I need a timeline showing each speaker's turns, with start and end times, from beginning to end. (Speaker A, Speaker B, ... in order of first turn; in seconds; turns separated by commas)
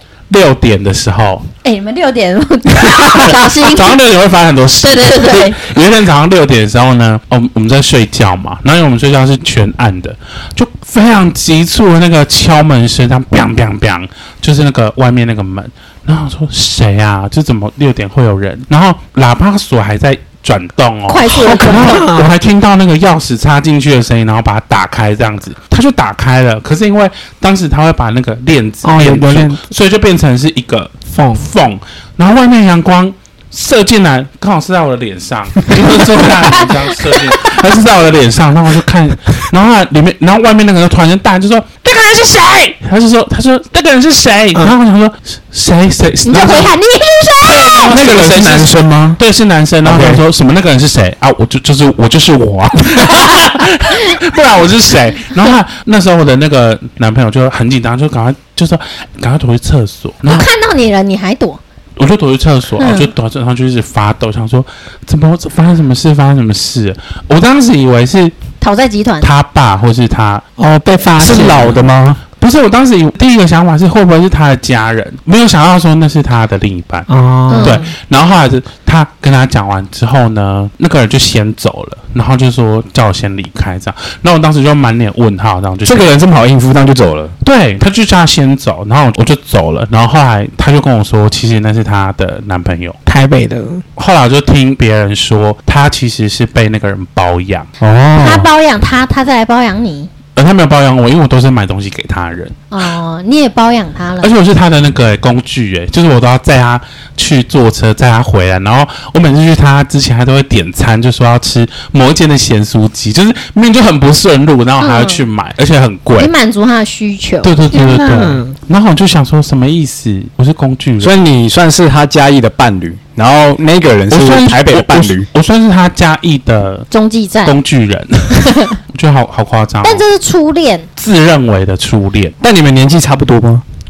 Speaker A: 0.3-1.5, Speaker B: 1.6-4.0, Speaker A: 3.0-46.7, Speaker B: 4.8-5.6, Speaker B: 21.1-22.1, Speaker C: 21.3-22.3, Speaker C: 28.8-29.6, Speaker D: 29.0-29.5, Speaker C: 31.1-31.5, Speaker B: 36.3-37.2, Speaker B: 46.2-47.9, Speaker A: 47.5-60.5, Speaker D: 47.9-49.2, Speaker D: 49.8-50.2, Speaker B: 60.3-61.6, Speaker A: 62.0-68.3, Speaker B: 62.8-63.1, Speaker B: 68.6-69.3, Speaker A: 69.2-70.4, Speaker C: 70.6-71.8, Speaker D: 71.2-72.2, Speaker A: 72.4-86.1, Speaker C: 77.1-77.8, Speaker B: 77.5-77.9, Speaker D: 85.8-87.3, Speaker A: 87.4-93.0, Speaker C: 93.1-93.8, Speaker A: 94.0-97.7, Speaker D: 97.8-98.5, Speaker B: 98.2-100.1, Speaker A: 100.3-102.6, Speaker B: 102.7-104.3, Speaker A: 104.2-116.3, Speaker B: 114.8-115.3, Speaker B: 116.1-117.5, Speaker A: 117.4-121.1, Speaker C: 117.7-118.6, Speaker D: 121.0-125.3, Speaker A: 124.1-126.9, Speaker B: 126.9-127.6, Speaker A: 127.5-130.0, Speaker B: 128.4-128.8, Speaker B: 129.8-130.9, Speaker A: 131.0-132.4, Speaker D: 132.4-133.6